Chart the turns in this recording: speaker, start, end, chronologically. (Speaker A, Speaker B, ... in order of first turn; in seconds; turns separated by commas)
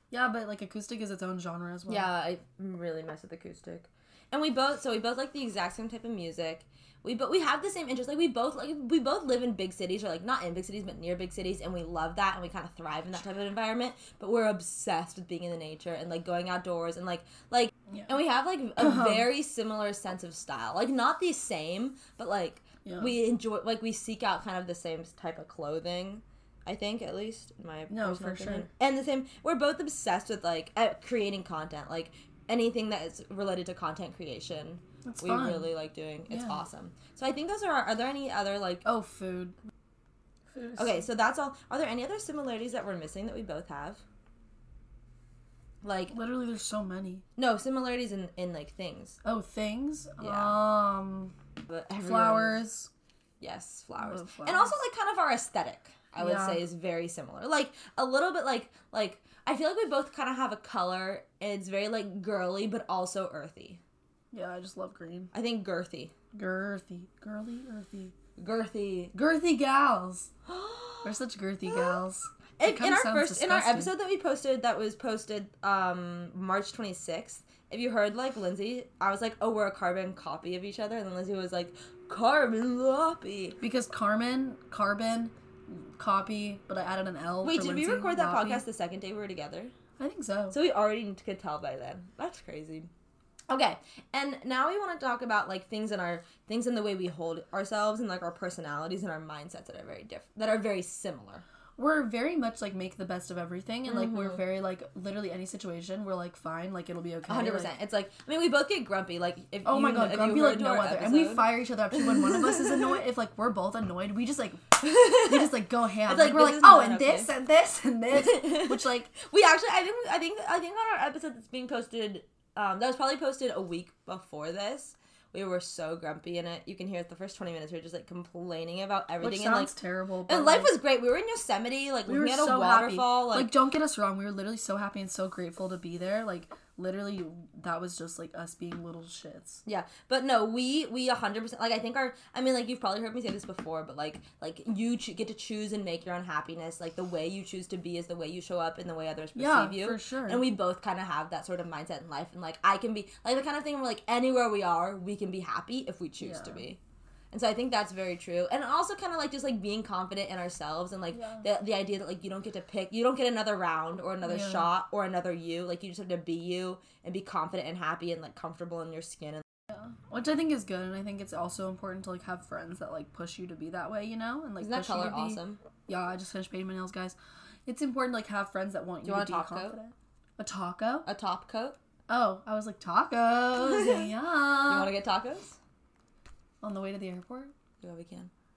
Speaker A: 0.1-2.1, Speaker B: 1.9-38.9, Speaker A: 18.8-19.3, Speaker A: 22.9-23.2, Speaker A: 27.9-28.7, Speaker A: 35.0-35.7, Speaker A: 36.3-36.7, Speaker A: 38.9-39.5, Speaker A: 40.5-41.1, Speaker B: 40.8-44.0, Speaker B: 45.8-46.1, Speaker A: 46.1-47.2, Speaker B: 47.4-49.2, Speaker A: 49.2-51.4, Speaker B: 50.2-50.6, Speaker B: 51.7-52.6, Speaker A: 52.0-52.9, Speaker B: 53.4-63.8, Speaker A: 54.0-54.8, Speaker A: 56.2-56.6, Speaker A: 64.3-65.3, Speaker B: 65.3-66.1, Speaker A: 66.3-68.1, Speaker B: 68.4-69.1, Speaker A: 69.1-70.3, Speaker B: 70.5-71.2, Speaker A: 71.0-73.9, Speaker B: 71.7-72.0, Speaker B: 72.6-83.6, Speaker A: 83.6-88.7, Speaker B: 87.4-89.7, Speaker A: 90.0-90.6, Speaker B: 90.5-92.9, Speaker B: 93.5-101.4, Speaker A: 101.8-107.7, Speaker B: 103.9-104.4, Speaker B: 107.3-113.0, Speaker A: 109.7-119.1, Speaker B: 114.9-115.3, Speaker B: 116.1-117.3, Speaker B: 118.1-129.8, Speaker A: 129.2-130.8, Speaker B: 130.3-133.5, Speaker A: 132.1-139.6, Speaker B: 139.7-156.8, Speaker A: 149.3-150.5, Speaker A: 156.2-156.7, Speaker B: 157.3-169.4, Speaker A: 161.1-161.5, Speaker A: 164.2-164.7, Speaker A: 169.7-181.1, Speaker B: 174.6-175.6, Speaker B: 179.0-179.8, Speaker B: 181.1-181.8, Speaker A: 182.1-184.9, Speaker B: 183.5-185.6, Speaker A: 186.6-187.5, Speaker B: 187.8-188.3